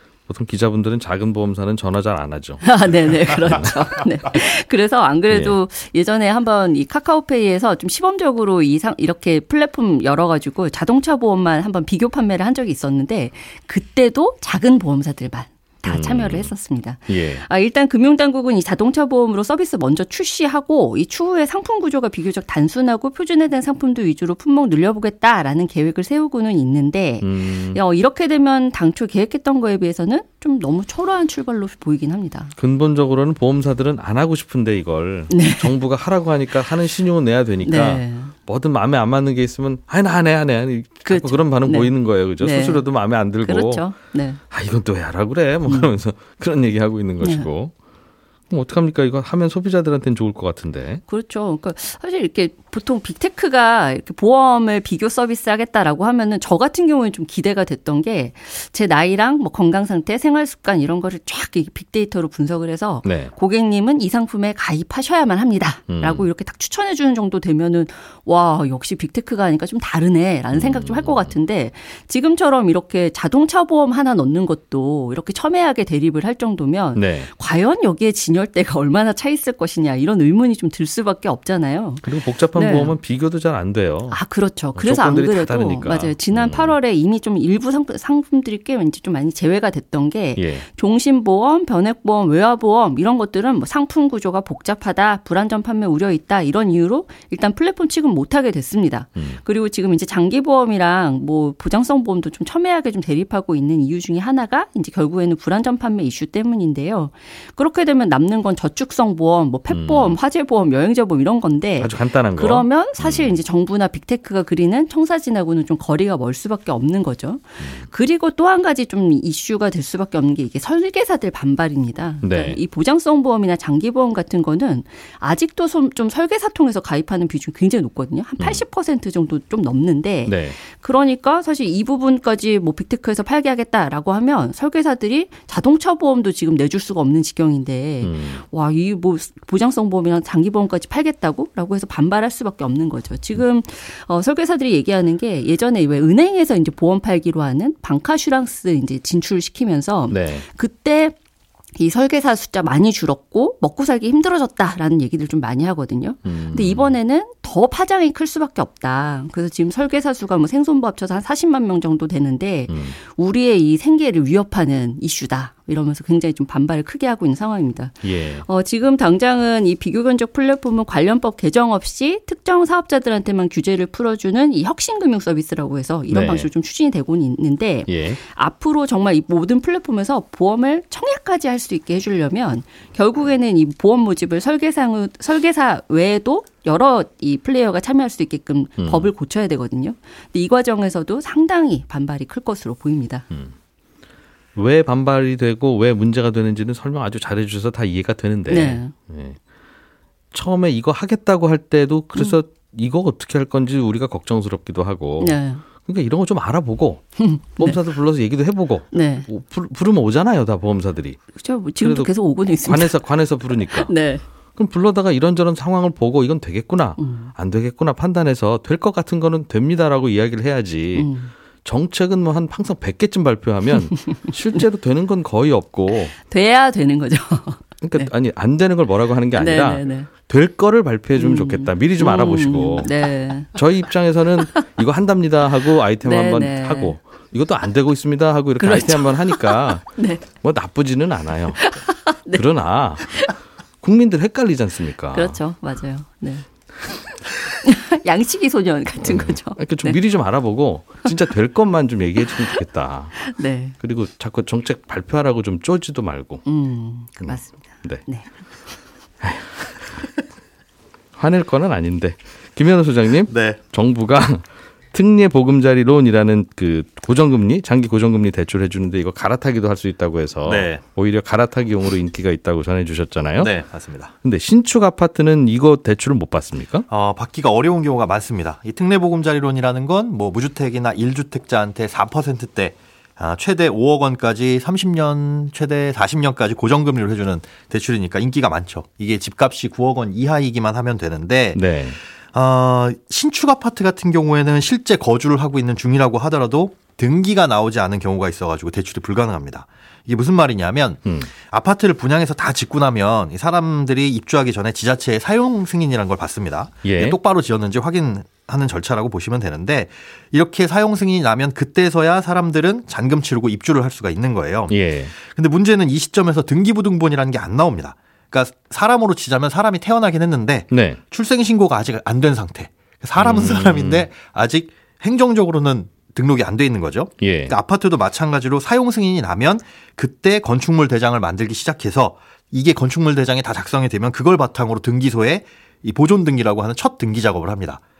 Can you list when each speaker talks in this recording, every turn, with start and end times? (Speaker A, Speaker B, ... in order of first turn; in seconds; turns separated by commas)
Speaker A: 0.3-4.0, Speaker B: 2.6-32.5, Speaker A: 5.3-5.6, Speaker A: 15.8-16.5, Speaker A: 17.1-17.4, Speaker A: 27.2-27.8, Speaker A: 32.6-43.9, Speaker B: 35.3-35.7, Speaker B: 37.6-38.3, Speaker B: 41.0-42.9, Speaker B: 43.4-44.4, Speaker A: 44.5-47.7, Speaker B: 45.6-45.9, Speaker B: 47.2-47.5, Speaker A: 48.5-51.0, Speaker B: 51.1-82.9, Speaker A: 63.0-63.3, Speaker A: 65.9-66.2, Speaker A: 70.5-71.3, Speaker A: 76.9-77.3, Speaker A: 82.0-84.2, Speaker B: 84.1-151.2, Speaker A: 84.8-86.8, Speaker A: 90.3-90.6, Speaker A: 109.7-110.2, Speaker A: 111.8-113.3, Speaker A: 117.6-117.9, Speaker A: 122.2-122.6, Speaker A: 130.2-130.6, Speaker A: 138.0-138.4, Speaker A: 150.1-150.4, Speaker B: 151.8-193.2, Speaker A: 156.2-156.9, Speaker A: 162.7-163.0, Speaker A: 168.0-168.4, Speaker A: 176.1-176.5, Speaker A: 177.9-178.2, Speaker A: 188.8-189.1, Speaker A: 194.6-199.4, Speaker B: 198.5-198.9, Speaker A: 200.3-211.2, Speaker B: 205.2-205.6, Speaker B: 207.2-207.8, Speaker B: 208.9-209.3, Speaker B: 211.3-213.0, Speaker A: 211.8-212.1, Speaker A: 212.6-213.9, Speaker B: 213.7-214.2, Speaker A: 214.6-221.1, Speaker B: 217.0-217.3, Speaker B: 220.9-221.3, Speaker A: 221.6-226.1, Speaker B: 224.0-224.6, Speaker B: 226.2-228.1, Speaker A: 227.8-241.7, Speaker B: 229.3-230.1, Speaker B: 231.2-233.6, Speaker B: 236.0-236.9, Speaker B: 238.6-240.2, Speaker B: 241.6-242.4, Speaker A: 242.3-245.4, Speaker B: 243.1-243.3, Speaker B: 245.1-246.4, Speaker B: 247.6-250.0, Speaker A: 249.0-256.4, Speaker B: 252.3-252.6, Speaker B: 253.2-253.7, Speaker B: 256.4-258.3, Speaker A: 257.2-258.0, Speaker A: 259.2-259.8, Speaker A: 261.1-273.5, Speaker C: 263.3-263.6, Speaker C: 270.4-270.8, Speaker C: 273.4-274.1, Speaker A: 274.2-276.9, Speaker C: 276.9-291.6, Speaker A: 291.5-292.0, Speaker C: 292.3-337.8, Speaker A: 301.0-301.3, Speaker A: 306.8-307.2, Speaker A: 314.7-315.1, Speaker A: 320.7-321.0, Speaker A: 323.2-324.1, Speaker A: 327.2-327.6